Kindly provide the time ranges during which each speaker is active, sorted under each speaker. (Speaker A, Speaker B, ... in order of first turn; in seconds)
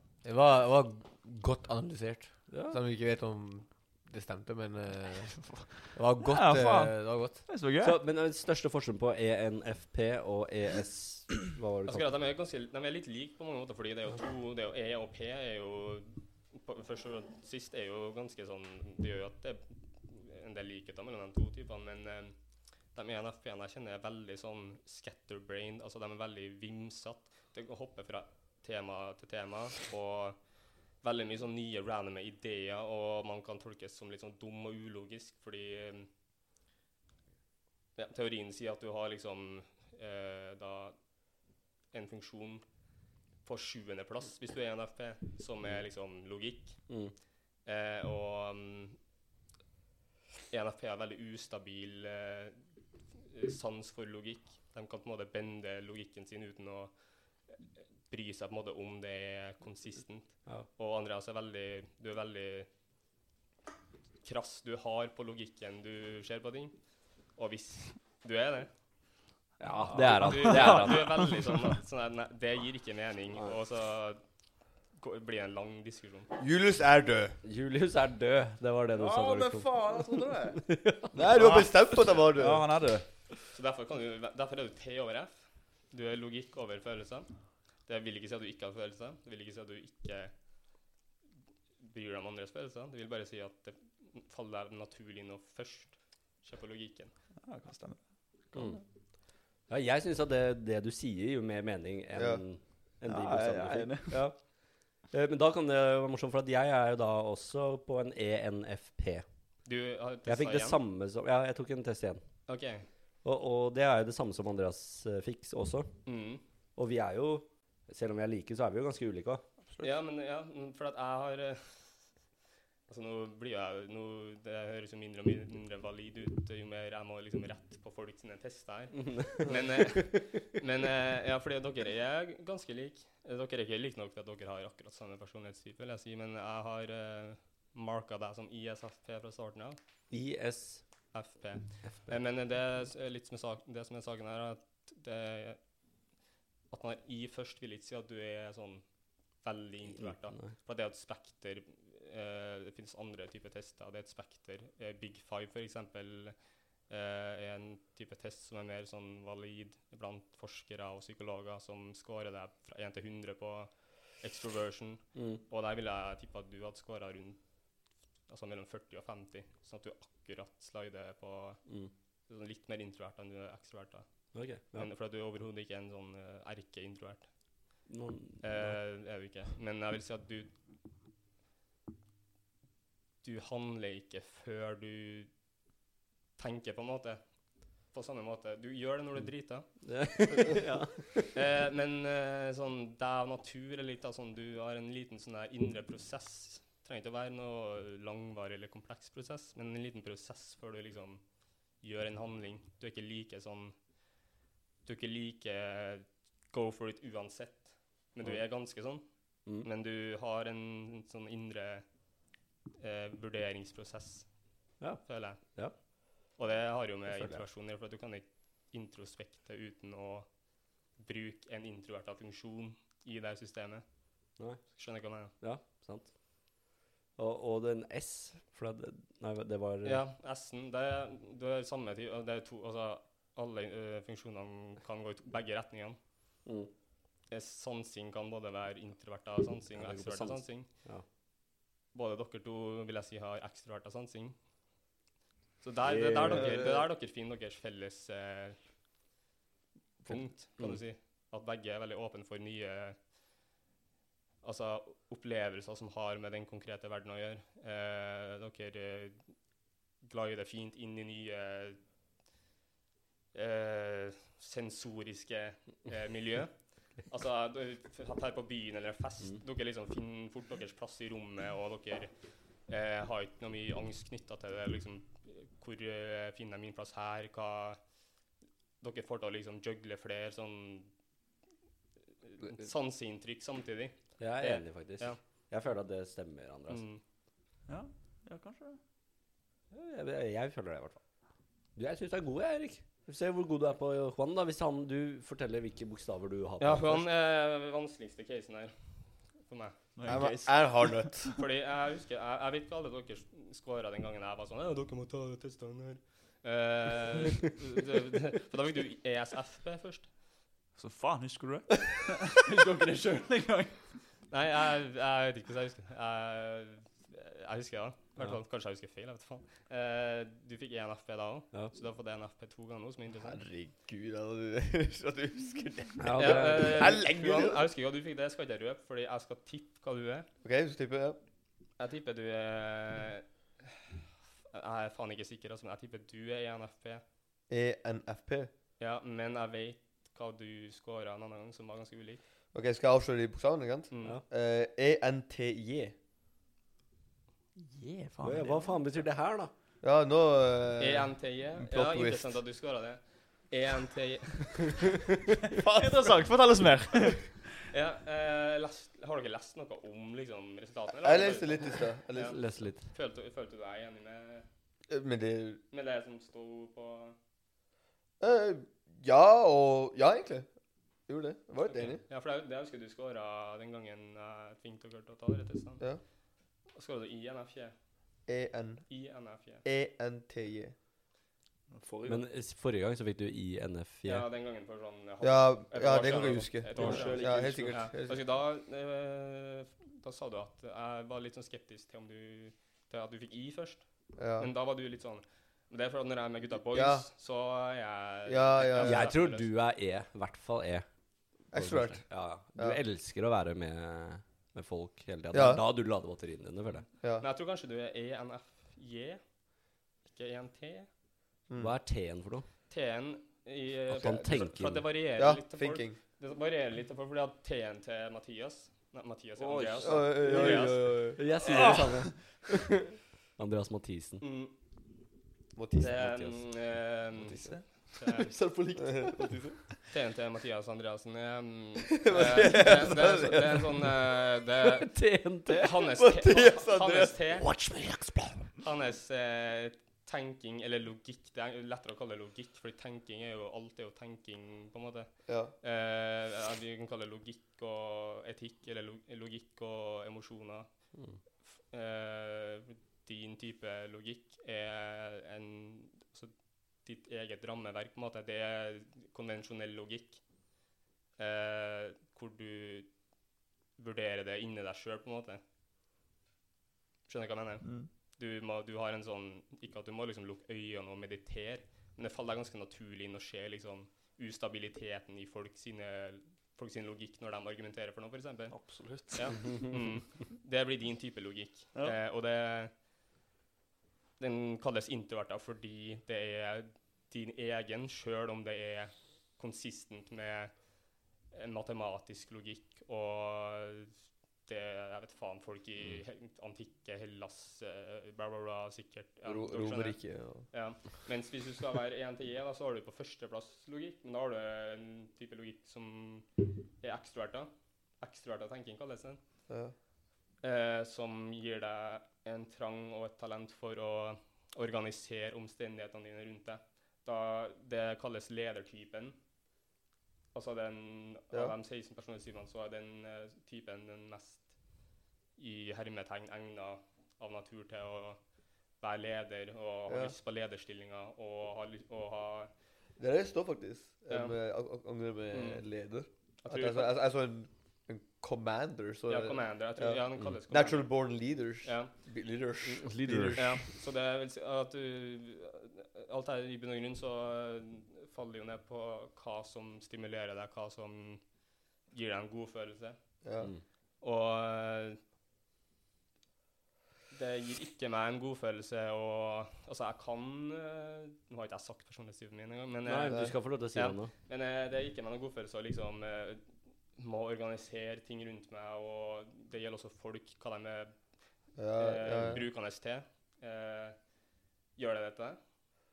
Speaker A: 0.2-7.5, 76.3-77.4, 81.1-82.6, 102.1-102.4, 300.1-301.3, 323.2-327.6, 330.4-331.2, 337.5-338.5, 342.5-345.9, 349.8-352.4, 361.0-362.4, 364.9-365.6, 368.2-370.5, 371.1-372.0, 378.2-380.7, 385.2-388.2, 394.1-394.5, 396.7-397.1, 398.3-399.2, 401.5-402.8, 405.3-405.6, 411.5-411.7, 414.0-414.4, 415.1-416.0, 419.8-421.2, 425.5-426.0, 428.8-429.6, 431.9-433.9, 436.0-437.2, 445.2-445.5, 499.2-500.5, 509.5-509.7, 521.3-521.5, 529.9-530.1, 533.0-543.6, 553.2-553.5, 563.0-563.3, 571.5-572.4
Speaker B: 2.5-2.8, 7.7-12.2, 45.6-45.9, 46.9-47.1, 69.6-71.3, 77.4-81.1, 98.5-98.8, 99.7-109.2, 110.2-112.2, 113.2-116.0, 116.8-119.5, 129.1-130.0, 140.1-141.3, 141.8-142.2, 149.9-150.5, 165.1-165.4, 171.7-171.9, 174.3-174.9, 177.9-178.8, 189.2-191.3, 208.2-208.5, 214.8-215.8, 217.1-217.4, 224.4-226.2, 227.2-230.1, 236.4-236.7, 239.7-241.0, 245.8-246.7, 250.1-250.9, 284.2-286.8, 289.7-291.0, 291.7-297.0, 326.0-327.0, 348.2-349.5, 362.2-362.9, 382.1-384.3, 386.8-387.0, 398.8-406.9, 411.6-412.5, 413.9-414.9, 421.1-424.2, 425.8-426.3, 434.6-436.0, 437.4-438.5, 450.9-451.2, 542.6-543.6, 562.9-564.1
Speaker C: 6.2-8.0, 69.7-71.3, 79.0-80.8, 81.3-83.0, 97.4-98.8, 103.0-104.2, 287.7-288.8, 299.9-301.3, 310.7-314.0, 347.6-348.7, 355.5-357.5, 381.7-382.2, 386.7-387.9, 419.4-420.8, 421.4-422.1, 427.1-429.6, 467.6-467.9, 478.5-479.6
Speaker D: 11.8-36.1, 38.0-41.2, 41.9-42.8, 43.4-49.0, 50.5-62.7, 64.2-68.7, 70.0-76.3, 83.5-90.8, 91.8-97.2, 109.6-110.8, 112.5-112.9, 116.0-116.4, 119.8-122.2, 122.9-139.8, 141.1-145.8, 146.7-177.9, 178.4-180.6, 183.2-185.3, 186.3-190.3, 191.3-203.9, 204.8-212.0, 212.7-225.3, 229.8-236.0, 237.3-240.7, 241.9-244.4, 245.6-248.6, 250.0-253.1, 254.4-261.8, 263.3-277.9, 278.8-280.9, 282.2-285.2, 286.7-287.0, 296.6-299.8, 301.4-310.1, 314.3-323.4, 326.1-330.3, 331.8-333.7, 334.5-337.0, 338.8-342.2, 343.9-344.2, 350.8-354.8, 357.7-364.4, 365.7-367.2, 371.7-375.9, 376.6-377.8, 378.9-379.6, 384.0-399.5, 407.2-410.9, 412.7-420.9, 424.2-424.5, 425.8-428.3, 429.9-437.5, 438.6-460.3, 461.2-463.1, 463.8-465.4, 467.1-482.8, 484.2-509.2, 510.4-519.1, 520.3-524.8, 525.4-532.5, 534.1-534.4, 535.3-535.6, 536.4-536.9, 539.1-541.9, 543.4-551.3, 551.8-553.1, 554.0-555.0, 557.1-574.1, 574.8-575.4